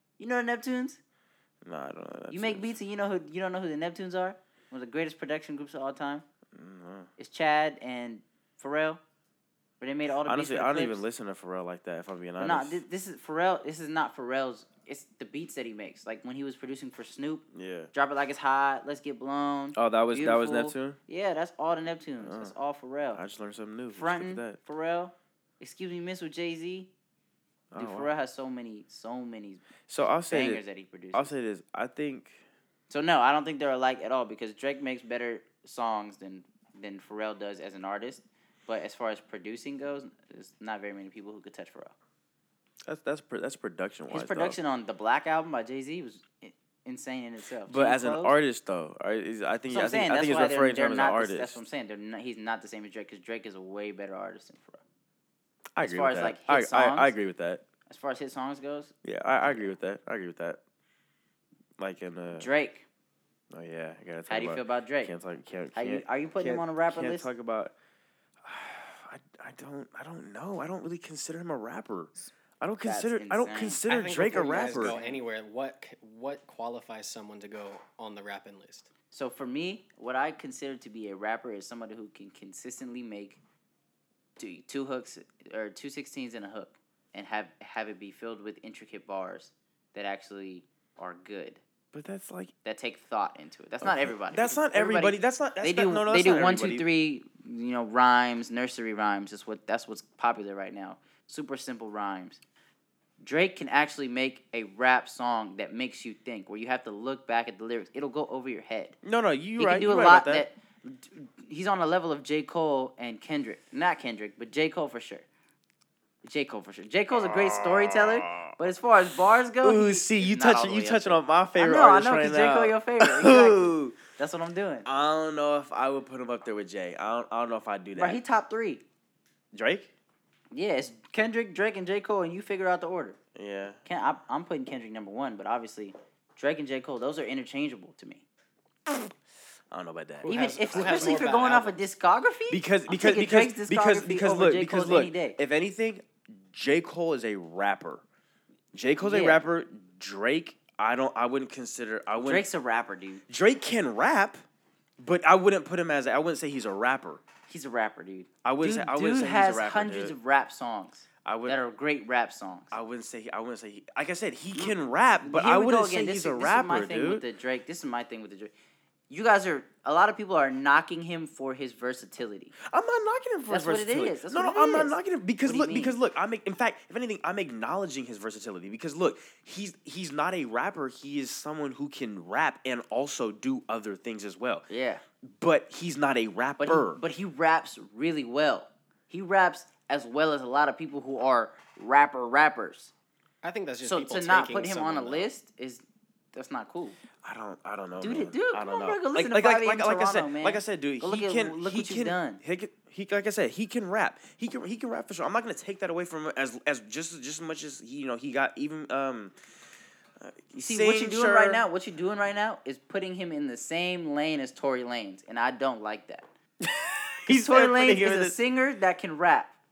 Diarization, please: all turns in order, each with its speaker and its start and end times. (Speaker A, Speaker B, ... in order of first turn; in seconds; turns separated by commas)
Speaker A: 0.2-1.0, Speaker B: 1.6-2.7, Speaker A: 2.3-6.2, Speaker B: 6.5-7.1, Speaker A: 7.2-9.0, Speaker A: 9.8-11.0, Speaker B: 10.1-12.8, Speaker A: 12.4-23.2, Speaker B: 17.5-17.9, Speaker B: 19.7-21.0, Speaker B: 22.2-22.5, Speaker B: 23.2-24.6, Speaker A: 23.9-26.9, Speaker B: 27.7-28.1, Speaker A: 27.8-29.6, Speaker B: 29.9-32.4, Speaker A: 30.3-31.3, Speaker A: 32.9-41.9, Speaker B: 42.9-44.6, Speaker A: 44.1-48.4, Speaker B: 47.7-51.6, Speaker A: 49.7-54.8, Speaker B: 55.8-57.6, Speaker A: 55.8-57.1, Speaker A: 57.9-58.9, Speaker B: 59.0-60.6, Speaker B: 61.8-62.5, Speaker A: 62.3-62.9, Speaker B: 63.5-67.8, Speaker A: 64.3-65.1, Speaker A: 65.7-67.3, Speaker B: 68.4-75.0, Speaker A: 72.8-75.2, Speaker C: 73.9-78.9, Speaker A: 79.1-83.4, Speaker A: 84.4-91.6, Speaker B: 91.9-92.5, Speaker A: 92.6-102.4, Speaker B: 93.8-96.9, Speaker A: 103.2-109.0, Speaker B: 109.0-110.5, Speaker A: 109.6-115.3, Speaker A: 116.2-124.9, Speaker B: 117.1-118.6, Speaker B: 119.6-124.0, Speaker B: 124.9-128.2, Speaker A: 128.0-128.8, Speaker B: 129.5-129.9, Speaker A: 130.5-133.2, Speaker B: 133.3-133.8, Speaker A: 133.8-138.2, Speaker B: 139.7-141.3, Speaker C: 140.2-141.8, Speaker A: 140.2-145.4, Speaker B: 142.5-148.0, Speaker B: 148.7-152.5, Speaker A: 149.0-149.4, Speaker A: 152.2-153.2, Speaker B: 153.3-154.4, Speaker B: 155.0-157.2, Speaker A: 157.5-162.8, Speaker B: 158.4-160.2, Speaker B: 161.2-161.6, Speaker B: 162.7-167.2, Speaker A: 164.6-168.5, Speaker A: 169.1-172.6, Speaker B: 172.6-184.7, Speaker A: 173.5-176.0, Speaker A: 184.7-185.0, Speaker B: 185.2-187.0, Speaker A: 186.6-192.9, Speaker C: 193.4-195.3, Speaker A: 193.8-197.0, Speaker B: 197.2-209.4, Speaker A: 198.0-202.4, Speaker B: 210.2-211.7, Speaker A: 210.6-216.3, Speaker B: 216.6-218.4, Speaker A: 217.3-219.6